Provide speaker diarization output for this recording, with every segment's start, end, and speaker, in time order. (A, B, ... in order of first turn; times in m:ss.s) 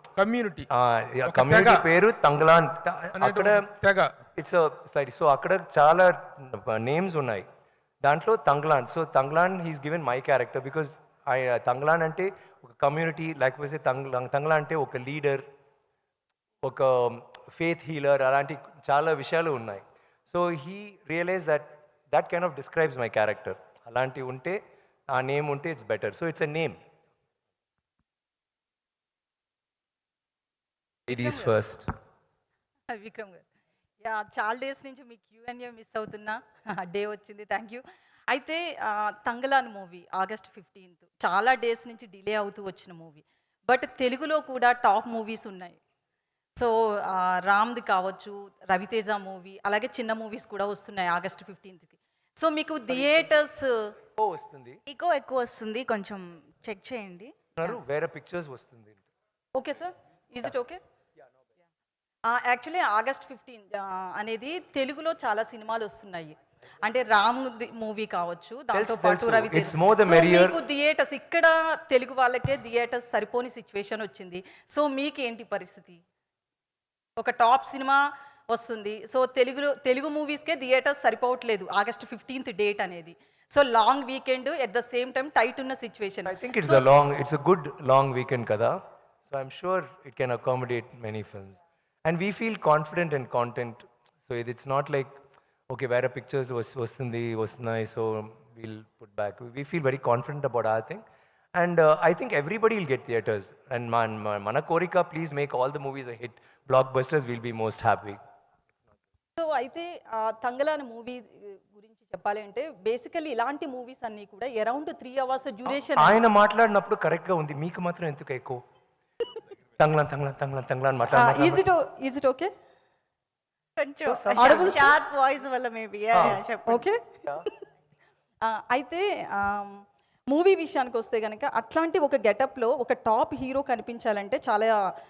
0:00.2-0:00.7 A
0:00.7-0:03.6 B
0:01.3-0:01.8 A
0:03.2-0:04.1 A
0:04.4-0:07.5 B
0:08.0-0:15.4 B
0:16.6-0:26.8 B
0:31.1-0:31.9 B
0:31.1-0:31.5 C
0:32.9-0:33.5 C
0:34.0-0:45.8 C
0:46.6-0:53.9 C
0:53.0-0:53.2 B
0:54.2-0:54.8 B
0:54.9-0:57.3 D
0:57.6-0:59.0 B
0:59.6-1:00.8 C
1:02.3-1:16.0 C
1:08.7-1:10.6 B
1:17.2-1:26.9 C
1:26.3-1:28.8 B
1:29.3-1:35.2 B
1:35.7-1:41.0 B
1:41.6-1:48.2 B
1:49.4-1:56.2 C
1:55.7-1:58.6 B
1:59.8-2:01.6 B
2:01.1-2:02.5 C
2:03.8-2:06.8 D
2:04.1-2:04.9 B
2:04.4-2:05.0 C
2:06.2-2:06.4 B
2:06.2-2:07.4 C
2:08.4-2:14.7 C